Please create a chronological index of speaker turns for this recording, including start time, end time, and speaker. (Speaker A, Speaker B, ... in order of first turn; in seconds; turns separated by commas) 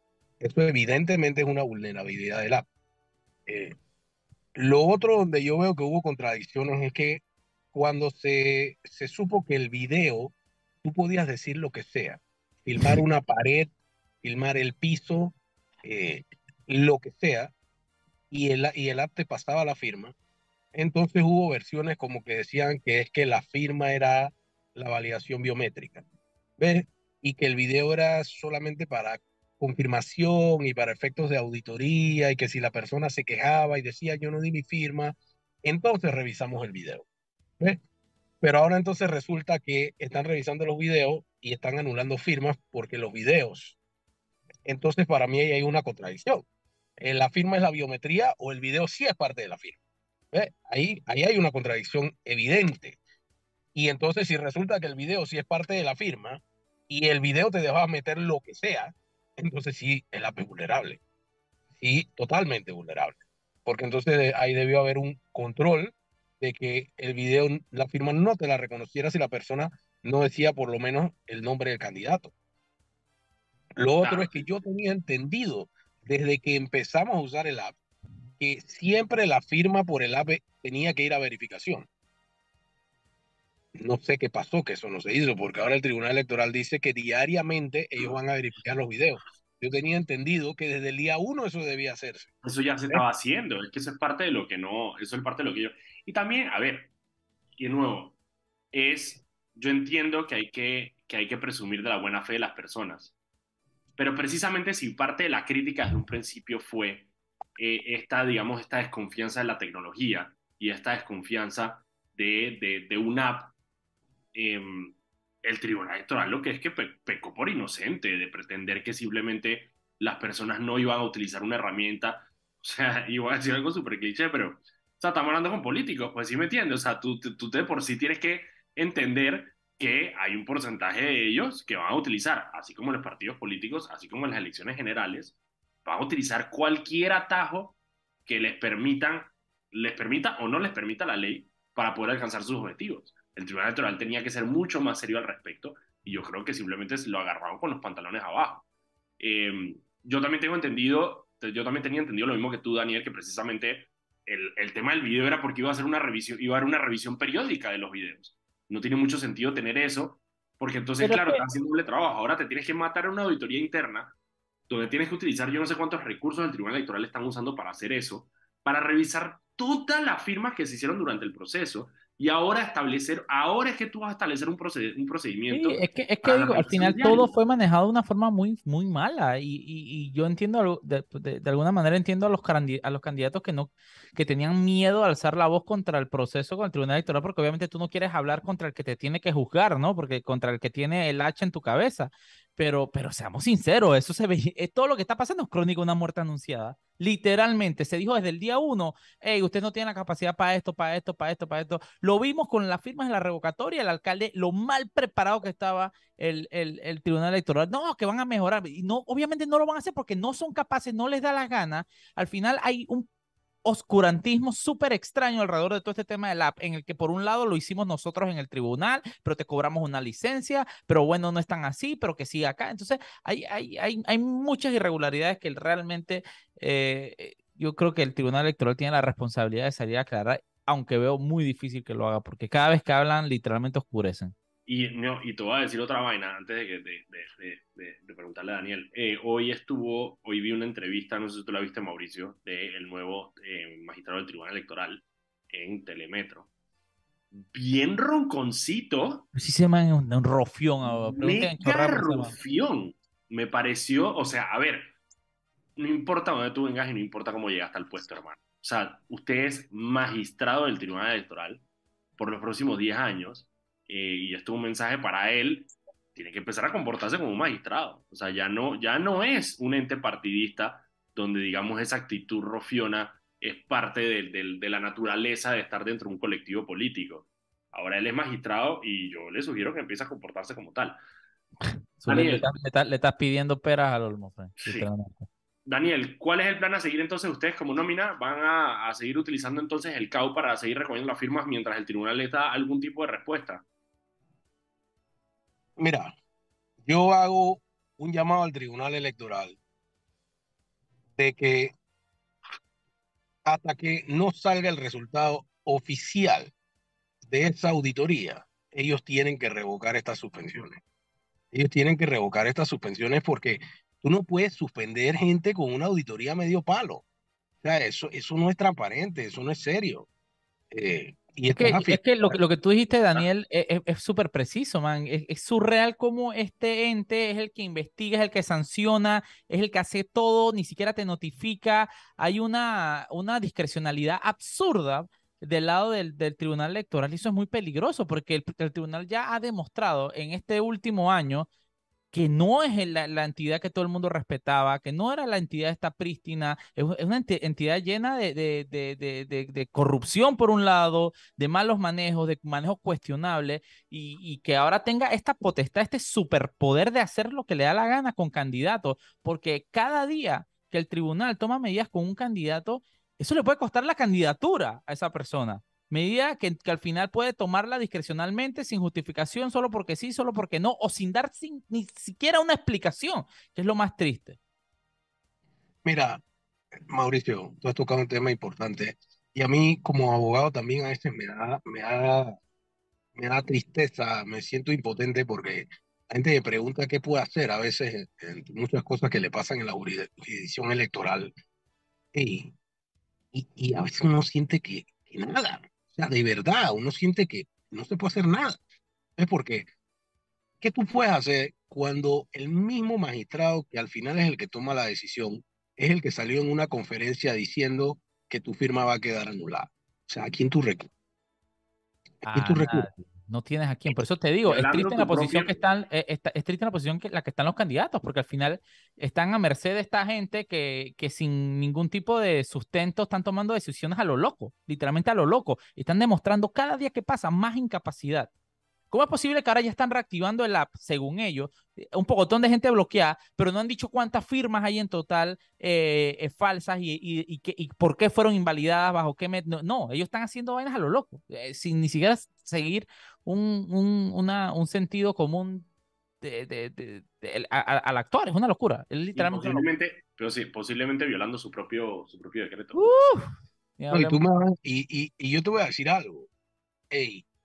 Speaker A: 0.4-2.7, Speaker A: 3.5-3.8, Speaker A: 4.5-17.5, Speaker A: 18.3-20.1, Speaker A: 20.7-26.1, Speaker A: 26.6-37.1, Speaker A: 38.4-43.8, Speaker A: 44.6-46.5, Speaker A: 47.0-49.8, Speaker A: 50.3-53.0, Speaker A: 53.8-61.0, Speaker A: 61.8-72.3, Speaker A: 73.8-77.8, Speaker B: 74.0-74.4, Speaker A: 78.4-81.9, Speaker A: 83.8-92.3, Speaker B: 92.4-96.9, Speaker B: 97.6-98.2, Speaker B: 98.7-103.1, Speaker B: 104.0-113.5, Speaker B: 114.3-148.6, Speaker B: 149.2-164.1, Speaker C: 161.0-161.4, Speaker B: 164.7-177.3, Speaker C: 175.5-213.1, Speaker C: 213.7-234.3, Speaker B: 234.7-246.5, Speaker B: 247.3-249.3, Speaker C: 249.3-252.3, Speaker B: 250.9-254.9, Speaker B: 255.8-261.6, Speaker B: 262.2-281.0, Speaker C: 281.7-285.3, Speaker B: 282.1-282.5, Speaker B: 284.6-284.9, Speaker B: 285.7-293.6, Speaker A: 295.8-296.1, Speaker A: 296.8-299.6, Speaker A: 301.2-301.7, Speaker A: 303.4-306.5, Speaker A: 307.3-310.8, Speaker A: 311.5-317.0, Speaker A: 317.6-320.1, Speaker A: 320.7-322.4, Speaker C: 321.6-341.5, Speaker C: 342.1-374.4, Speaker A: 375.8-376.2, Speaker A: 376.9-382.4, Speaker A: 383.2-391.3, Speaker A: 392.1-392.5, Speaker A: 393.3-398.6, Speaker A: 399.2-399.7, Speaker A: 400.6-410.9, Speaker A: 412.2-412.9, Speaker C: 412.2-428.3, Speaker B: 414.4-415.6, Speaker C: 428.9-445.7, Speaker C: 446.2-449.7, Speaker B: 449.1-453.0, Speaker C: 452.7-454.2, Speaker A: 453.9-456.3, Speaker A: 456.9-457.2